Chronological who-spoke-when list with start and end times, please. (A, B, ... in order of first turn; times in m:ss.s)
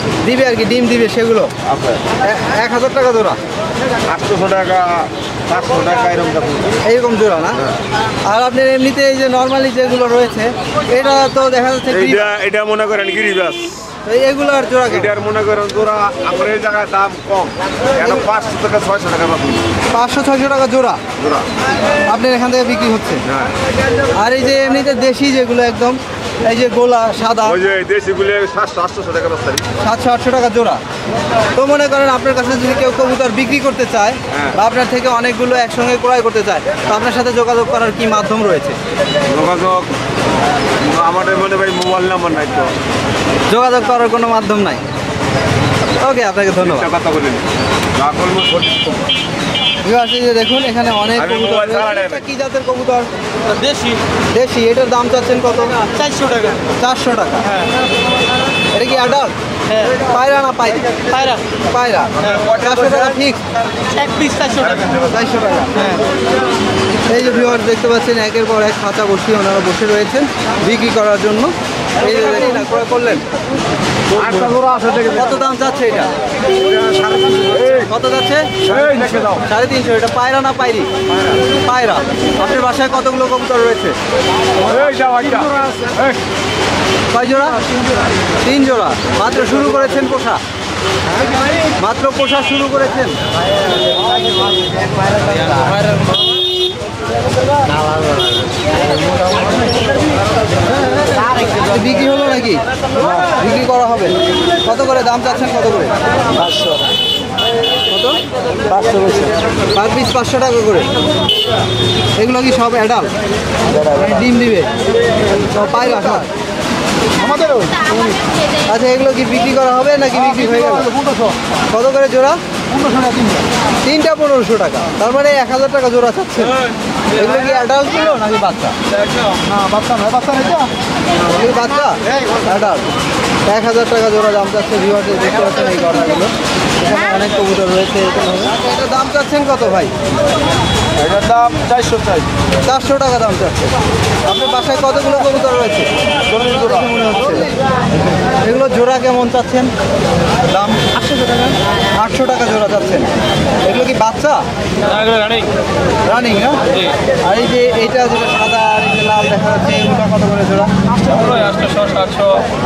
0:00.2-0:01.5 A
0:01.6-0:02.0 B
0:02.2-0:03.4 A
0:04.0-0:06.8 B
0:06.8-0:07.7 A
0:08.2-0:12.3 A
0:11.9-0:13.8 B
0:14.0-0:15.1 A
0:14.9-0:19.7 B
0:18.0-0:18.2 A
0:19.9-0:21.0 A
0:21.2-0:21.5 B
0:22.0-0:23.2 A
0:23.3-0:23.5 B
0:24.1-0:27.6 A
0:27.4-0:29.7 B
0:29.8-0:30.8 A
0:31.5-0:38.8 A
0:39.2-0:39.9 B
0:40.8-0:42.8 B
0:43.5-0:44.8 A
0:46.0-0:46.9 A
0:46.6-0:49.0 B
0:49.8-0:53.1 A
0:51.2-0:52.2 B
0:53.5-0:54.0 C
0:54.3-0:55.9 A
0:55.9-0:56.6 C
0:56.7-0:57.6 A
0:58.7-1:03.4 A
1:01.1-1:01.4 C
1:02.2-1:02.7 B
1:03.9-1:05.0 C
1:05.0-1:06.1 A
1:07.0-1:13.3 A
1:14.1-1:15.3 B
1:15.1-1:16.1 A
1:16.5-1:17.9 B
1:17.6-1:24.0 A
1:18.7-1:19.4 B
1:24.6-1:26.1 B
1:27.1-1:27.7 A
1:28.3-1:30.4 A
1:31.8-1:33.2 A
1:35.4-1:36.0 C
1:41.6-1:45.9 A
1:46.4-1:46.8 C
1:47.9-1:48.2 A
1:48.7-1:49.3 C
1:49.7-1:50.9 A
1:52.2-1:53.1 A
1:53.8-1:54.7 A
1:55.4-1:56.3 A
1:58.6-2:01.1 A
2:01.7-2:02.4 A
2:03.8-2:08.8 A
2:09.5-2:10.2 A
2:11.2-2:12.9 A
2:13.5-2:19.9 A
2:21.0-2:22.3 B
2:22.6-2:27.5 A
2:28.4-2:29.7 A
2:30.4-2:33.1 A
2:33.6-2:34.5 A
2:34.9-2:35.5 C
2:36.0-2:36.6 A
2:37.2-2:40.7 A
2:41.4-2:42.4 C